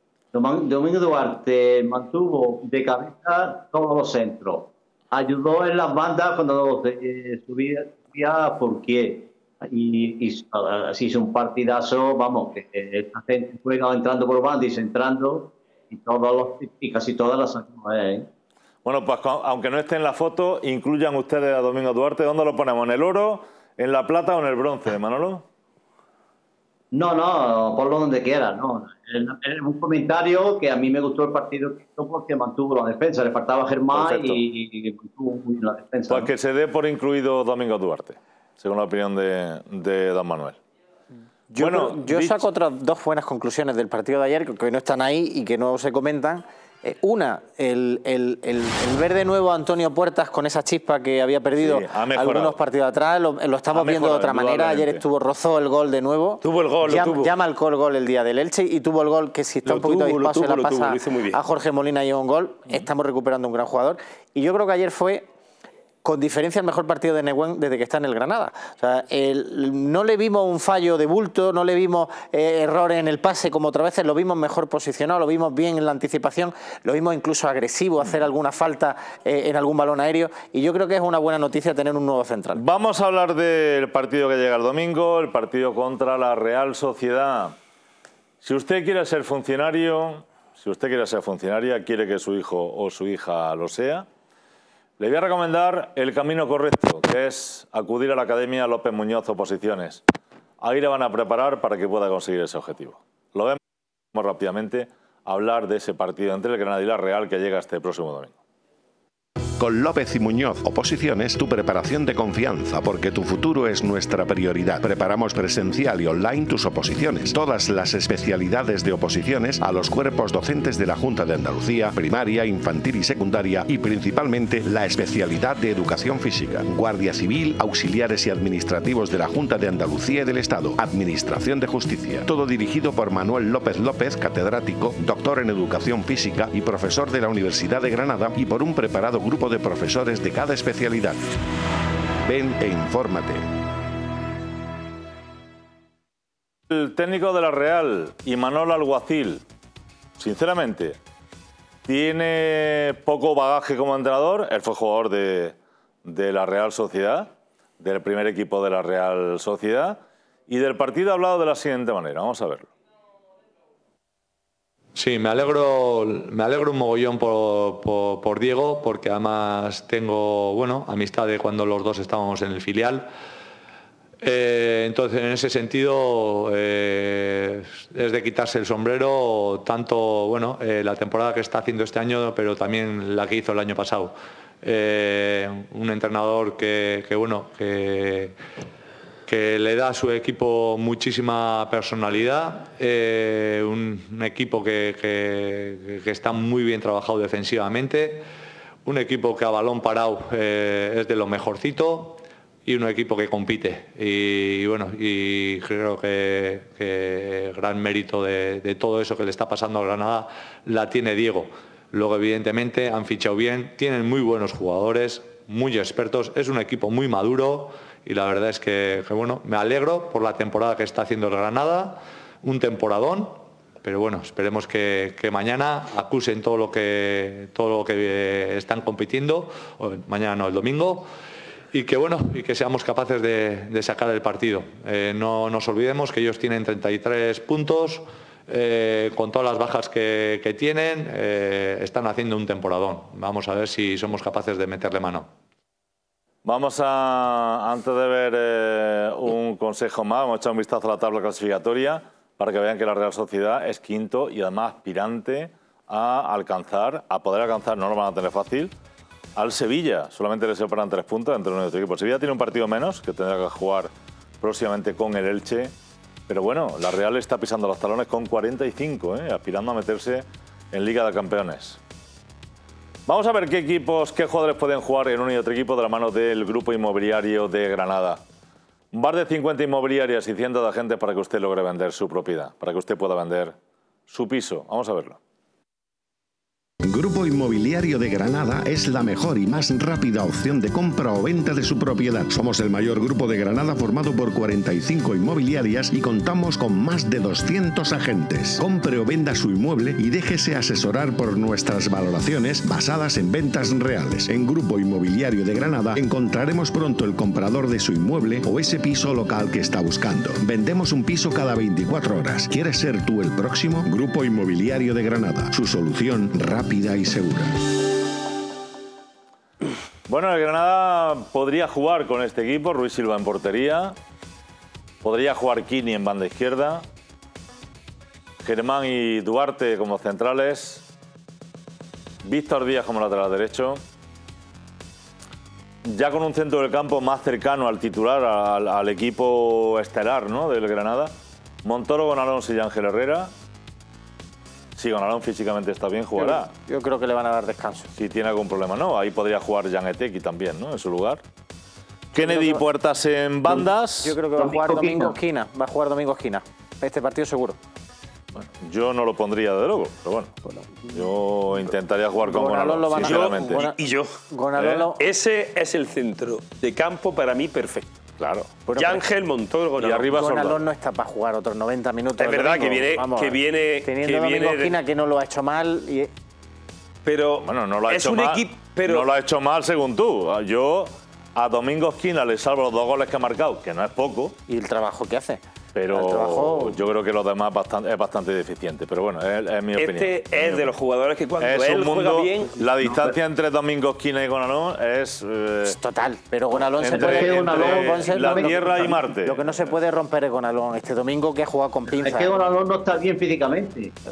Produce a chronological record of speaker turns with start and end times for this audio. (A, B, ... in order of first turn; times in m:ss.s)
0:00.3-0:18.3 A
0:18.8-0:25.4 B
0:26.9-0:36.3 A
0:33.9-0:34.4 B
0:36.1-0:40.6 B
0:41.5-1:05.3 C
0:41.6-0:42.4 B
0:51.6-0:52.6 B
0:53.7-0:55.0 B
0:56.4-0:57.3 D
0:59.6-1:01.4 D
1:06.0-1:22.6 C
1:22.5-1:27.6 B
1:28.4-1:34.0 B
1:35.0-1:40.0 B
1:40.6-1:43.6 B
1:44.1-1:48.3 B
1:49.6-2:21.2 E
2:22.2-2:23.5 E
2:26.7-2:29.4 B
2:30.2-2:31.0 B
2:31.8-2:42.7 B
2:44.9-2:53.0 F
2:54.2-3:08.4 F
3:09.2-3:18.2 F
3:18.8-3:51.1 F
3:51.7-4:05.3 F
4:06.4-4:18.7 B
4:19.4-4:25.7 B
4:26.3-4:31.8 B
4:33.1-4:38.2 B
4:38.9-4:43.5 B
4:44.1-4:45.2 B
4:46.8-5:17.6 E
5:20.1-5:23.9 B
5:25.0-5:26.8 B
5:28.4-5:30.8 B
5:32.2-5:33.8 B
5:35.8-5:41.1 B
5:41.6-5:43.3 B
5:44.8-5:46.5 B
5:46.2-5:47.9 C
5:48.0-5:51.2 B
5:52.1-5:54.2 B
5:52.2-5:52.6 C
5:54.0-5:57.6 C
5:54.4-5:55.2 A
5:58.3-6:00.3 B
6:00.5-6:01.0 C
6:00.9-6:03.7 B
6:02.2-6:03.8 C
6:03.0-6:04.1 D
6:04.3-6:05.0 C
6:04.6-6:04.9 B
6:05.0-6:08.0 D
6:08.2-6:08.5 B
6:08.7-6:09.0 C
6:08.7-6:10.4 D
6:09.8-6:10.6 B
6:10.1-6:16.1 C
6:12.2-6:14.8 D
6:17.0-6:19.1 D
6:17.4-6:24.4 B
6:24.5-6:26.8 C
6:25.7-6:30.7 B
6:29.7-6:33.1 D
6:31.4-6:35.8 B
6:35.6-6:42.4 C
6:36.8-6:39.0 A
6:36.8-6:39.5 B
6:41.9-6:43.9 A